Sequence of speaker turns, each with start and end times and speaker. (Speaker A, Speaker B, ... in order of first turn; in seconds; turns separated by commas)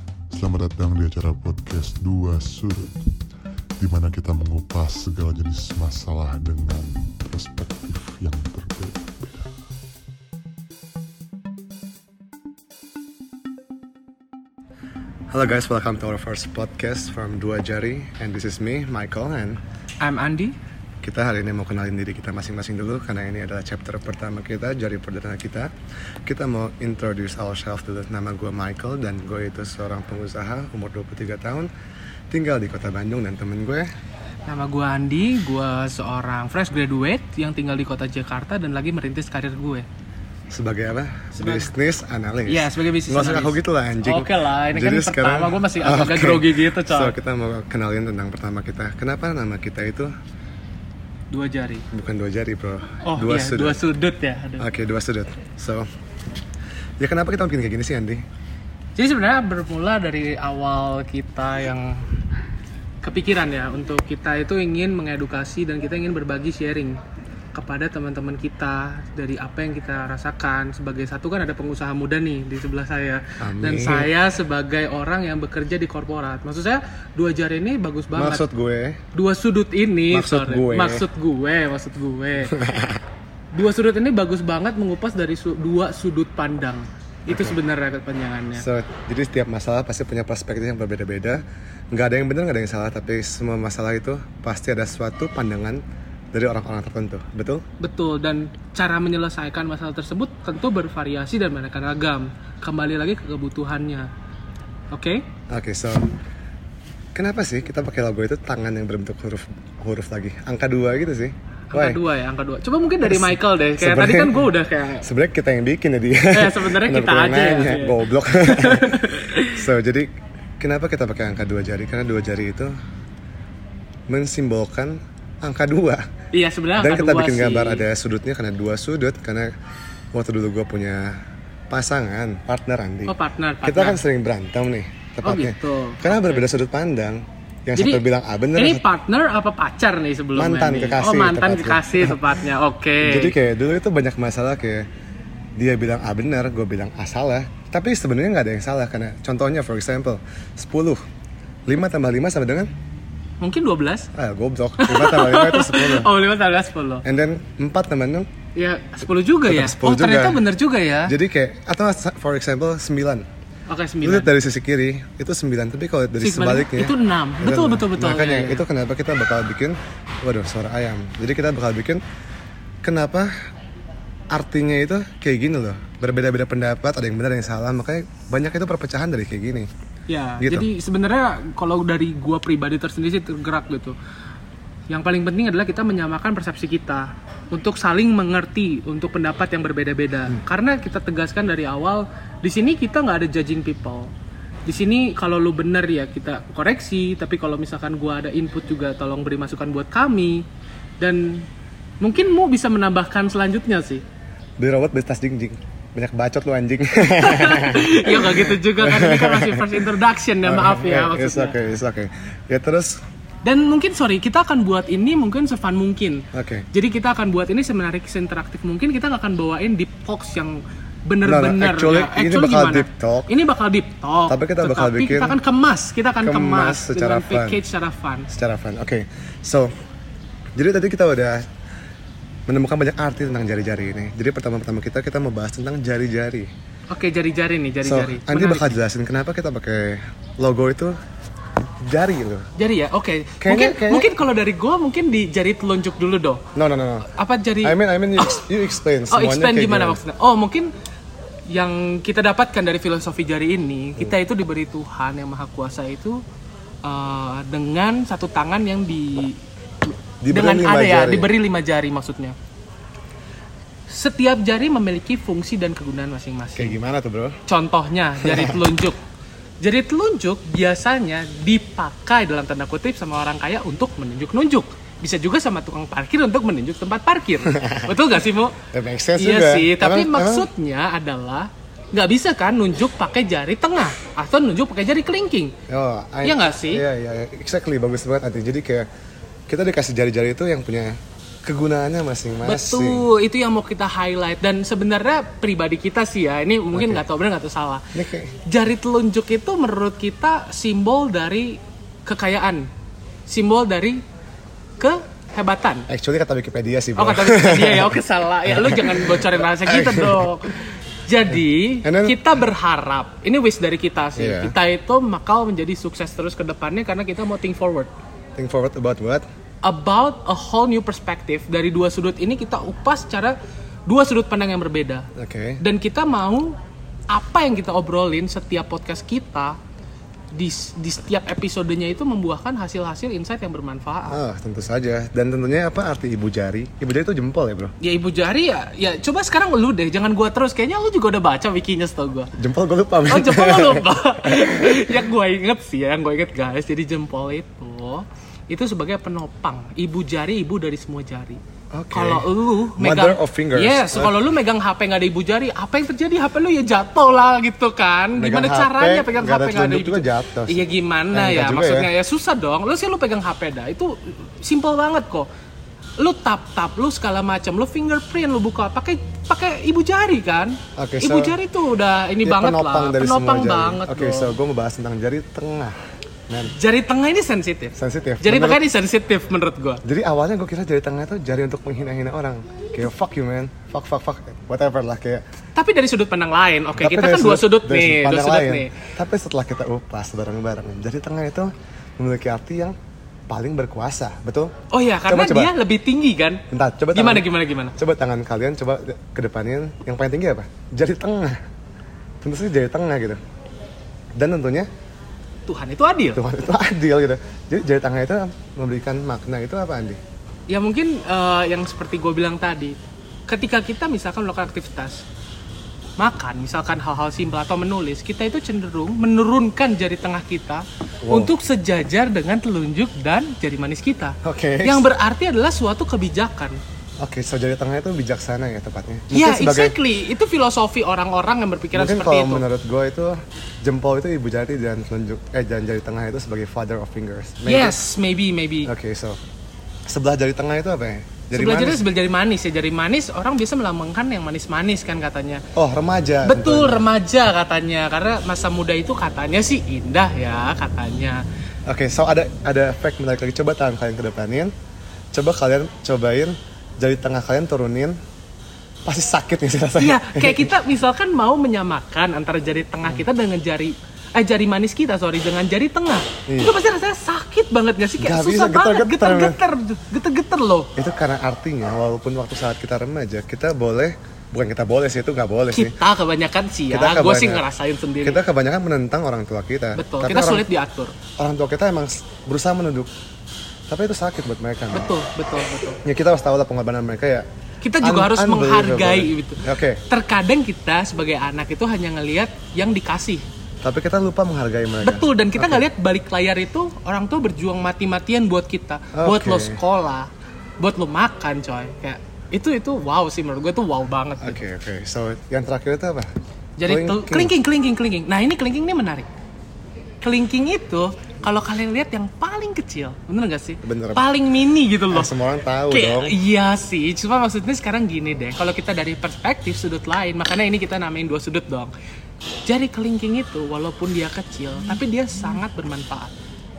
Speaker A: 0.3-3.0, Speaker A: 3.8-9.5, Speaker B: 15.3-19.6, Speaker C: 20.0-20.6, Speaker B: 21.0-25.7, Speaker B: 26.2-31.7, Speaker B: 32.3-33.9, Speaker C: 34.5-39.9, Speaker B: 40.5-50.1, Speaker C: 41.3-41.7, Speaker C: 42.5-47.1, Speaker C: 51.3-51.8, Speaker B: 51.9-53.8, Speaker C: 53.0-54.7, Speaker B: 54.6-55.9, Speaker B: 57.0-58.2, Speaker C: 59.0-62.1, Speaker C: 63.0-67.0, Speaker C: 67.5-78.5, Speaker B: 73.4-74.1, Speaker B: 78.2-79.0, Speaker C: 79.1-82.6, Speaker B: 80.1-81.0, Speaker B: 82.5-83.0, Speaker C: 83.5-88.6, Speaker B: 87.3-87.6, Speaker B: 88.5-97.6, Speaker C: 97.8-104.1, Speaker C: 104.9-105.2, Speaker B: 105.5-106.1, Speaker B: 107.1-112.0, Speaker C: 111.7-115.0, Speaker B: 113.0-119.0, Speaker C: 116.3-119.6, Speaker B: 119.5-122.7, Speaker B: 124.1-126.0, Speaker C: 126.3-127.8, Speaker B: 126.8-129.5, Speaker B: 130.1-131.2, Speaker B: 131.7-138.8, Speaker C: 133.1-134.0, Speaker C: 135.2-136.5, Speaker C: 137.8-143.3, Speaker B: 140.3-142.2, Speaker B: 143.0-144.8, Speaker B: 145.6-151.0, Speaker B: 151.7-152.7, Speaker C: 153.4-154.1, Speaker B: 154.1-156.1, Speaker C: 154.8-157.0, Speaker B: 157.0-158.3, Speaker C: 158.5-161.1, Speaker B: 159.4-160.4, Speaker B: 161.1-163.2, Speaker C: 163.7-164.3, Speaker B: 164.0-172.0, Speaker C: 166.2-168.6, Speaker B: 172.8-173.3, Speaker B: 174.3-179.7, Speaker C: 180.1-183.9, Speaker B: 180.4-180.7, Speaker C: 184.9-194.1, Speaker C: 194.7-200.4, Speaker C: 201.0-201.5, Speaker C: 202.0-204.0, Speaker B: 204.6-209.9, Speaker C: 207.1-211.6, Speaker B: 210.4-213.0, Speaker C: 213.4-228.3, Speaker B: 216.3-216.7, Speaker B: 221.2-223.3, Speaker B: 224.3-225.4, Speaker B: 226.2-227.6, Speaker B: 228.3-229.7, Speaker B: 230.6-231.4, Speaker B: 232.5-236.5, Speaker C: 236.9-238.8, Speaker B: 237.8-240.9, Speaker B: 241.8-242.4, Speaker C: 242.6-246.4, Speaker B: 243.4-244.2, Speaker B: 246.5-247.1, Speaker C: 247.1-248.4, Speaker B: 247.6-250.0, Speaker C: 249.1-250.7, Speaker C: 251.5-256.2, Speaker C: 256.8-259.4, Speaker B: 260.2-261.3, Speaker C: 260.3-262.4, Speaker C: 263.9-266.7, Speaker B: 266.5-267.4, Speaker C: 267.5-269.0, Speaker B: 268.2-268.6, Speaker C: 269.6-278.6, Speaker B: 277.5-277.9, Speaker B: 278.6-280.5, Speaker C: 279.1-285.5, Speaker B: 285.7-288.9, Speaker C: 286.2-286.8, Speaker B: 289.5-293.1, Speaker C: 292.4-297.9, Speaker B: 296.7-297.0, Speaker B: 297.9-298.3, Speaker C: 298.4-302.7, Speaker C: 303.3-304.0, Speaker C: 304.8-305.9, Speaker B: 305.9-310.3, Speaker C: 306.9-317.9, Speaker B: 311.8-312.5, Speaker B: 314.1-314.5, Speaker B: 318.4-319.2, Speaker C: 319.6-323.3, Speaker C: 323.9-325.1, Speaker B: 325.1-325.6, Speaker C: 325.6-326.5, Speaker C: 327.1-329.6, Speaker C: 330.3-334.2, Speaker B: 334.1-337.7, Speaker C: 337.8-342.3, Speaker B: 342.4-345.0, Speaker C: 343.1-351.4, Speaker B: 351.7-354.2, Speaker C: 351.9-365.3, Speaker B: 358.1-361.9, Speaker C: 366.0-374.4, Speaker B: 370.8-371.4, Speaker B: 372.2-375.7, Speaker B: 376.3-376.5, Speaker C: 376.4-379.8, Speaker B: 377.8-378.6, Speaker B: 379.8-385.2, Speaker C: 385.5-388.8, Speaker B: 386.8-392.8, Speaker B: 393.3-394.5, Speaker C: 394.7-396.4, Speaker B: 395.1-395.5, Speaker B: 396.5-401.4, Speaker C: 396.9-397.8, Speaker B: 402.2-403.2, Speaker B: 404.1-404.7, Speaker C: 405.5-406.2, Speaker B: 406.1-410.0, Speaker C: 410.5-412.8, Speaker C: 413.3-415.0, Speaker C: 416.0-426.6, Speaker B: 421.0-421.3, Speaker B: 424.2-424.9, Speaker B: 427.0-429.8, Speaker C: 429.1-432.4, Speaker B: 431.7-437.8, Speaker C: 437.4-438.7, Speaker B: 438.6-439.2, Speaker B: 439.9-441.8, Speaker C: 441.3-445.4, Speaker B: 445.6-446.8, Speaker C: 446.2-451.2, Speaker B: 451.7-454.5, Speaker B: 455.1-458.0, Speaker B: 458.9-460.5, Speaker C: 459.8-470.7, Speaker B: 466.3-466.5, Speaker B: 468.0-469.4, Speaker B: 470.8-475.8, Speaker C: 475.5-478.2, Speaker B: 476.7-477.4, Speaker B: 478.0-480.4, Speaker C: 479.8-480.9, Speaker B: 481.2-482.9, Speaker B: 483.7-484.9, Speaker C: 484.7-485.8, Speaker B: 485.8-487.2, Speaker C: 487.6-493.2, Speaker B: 487.8-489.8, Speaker B: 493.6-495.6, Speaker C: 494.8-500.1, Speaker B: 498.9-499.6, Speaker C: 500.6-504.4, Speaker B: 504.2-506.1, Speaker C: 506.6-509.1, Speaker B: 506.6-507.3, Speaker C: 510.0-515.1, Speaker B: 513.6-514.1, Speaker B: 514.9-516.2, Speaker C: 515.7-521.7, Speaker C: 522.5-526.1